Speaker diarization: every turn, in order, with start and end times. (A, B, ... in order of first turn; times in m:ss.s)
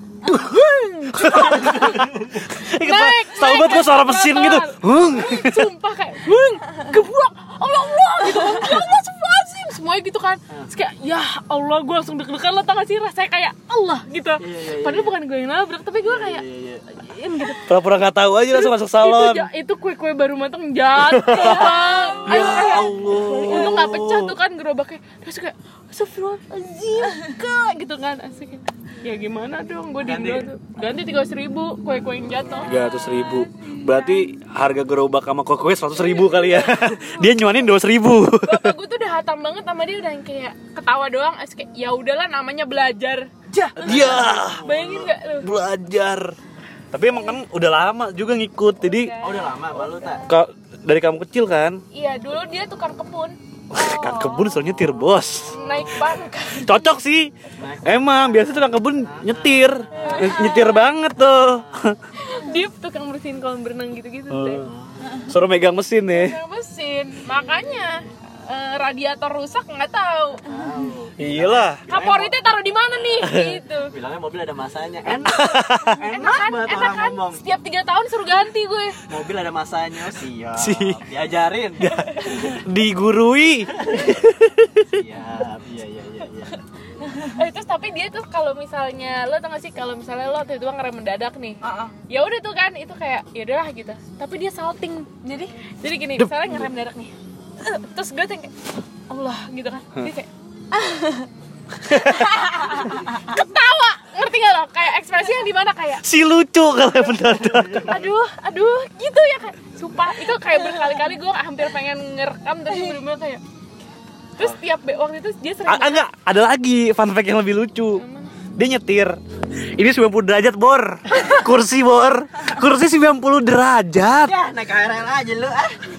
0:00.2-0:05.7 A
0:00.3-0:17.8 B
0:01.8-0:02.4 C
0:14.4-0:15.2 C
0:16.0-0:16.9 C
0:17.7-0:19.5 A
0:18.5-0:32.9 B
0:21.0-0:24.4 A
0:21.9-0:23.7 D
0:30.0-0:30.6 C
0:32.6-0:38.8 A
0:32.9-0:34.2 D
0:35.9-0:36.9 B
0:38.4-0:45.5 B
0:43.5-0:45.1 C
0:43.8-0:44.6 A
0:45.4-0:46.4 A
0:46.9-0:49.2 A
0:48.8-0:50.4 D
0:49.2-0:50.3 C
0:50.3-0:51.8 A
0:51.9-0:53.4 B
0:53.7-0:55.6 A
0:53.7-0:54.8 D
0:55.5-0:56.9 B
0:56.5-1:02.0 A
0:57.5-1:00.5 C
0:59.9-1:00.9 B
1:00.1-1:00.4 D
1:01.1-1:01.8 C
1:02.2-1:04.7 B
1:04.3-1:04.7 A
1:04.7-1:05.2 C
1:05.3-1:06.4 A
1:06.1-1:10.4 B
1:10.4-1:12.4 C
1:11.2-1:11.8 A
1:11.9-1:13.9 B
1:12.9-1:13.3 C
1:13.2-1:13.6 A
1:13.9-1:17.4 C
1:15.3-1:16.0 A
1:16.0-1:19.0 B
1:19.1-1:21.9 C
1:20.6-1:21.0 A
1:21.8-1:25.0 A
1:21.9-1:22.6 B
1:23.8-1:24.1 C
1:24.9-1:26.6 C
1:27.0-1:27.3 D
1:27.3-1:35.1 B
1:31.6-1:32.0 D
1:35.2-1:35.5 D
1:35.8-1:38.6 B
1:36.2-1:36.7 A
1:39.1-1:40.3 B
1:40.7-1:41.3 D
1:41.9-1:46.0 B
1:42.3-1:43.2 D
1:46.0-1:48.0 A
1:47.4-1:48.1 C
1:47.9-1:53.4 B
1:50.7-1:51.0 D
1:54.4-1:56.0 B
1:55.7-1:58.0 A
1:57.9-1:58.4 B
1:58.6-1:59.2 A
1:59.7-2:04.3 A
2:04.2-2:05.8 C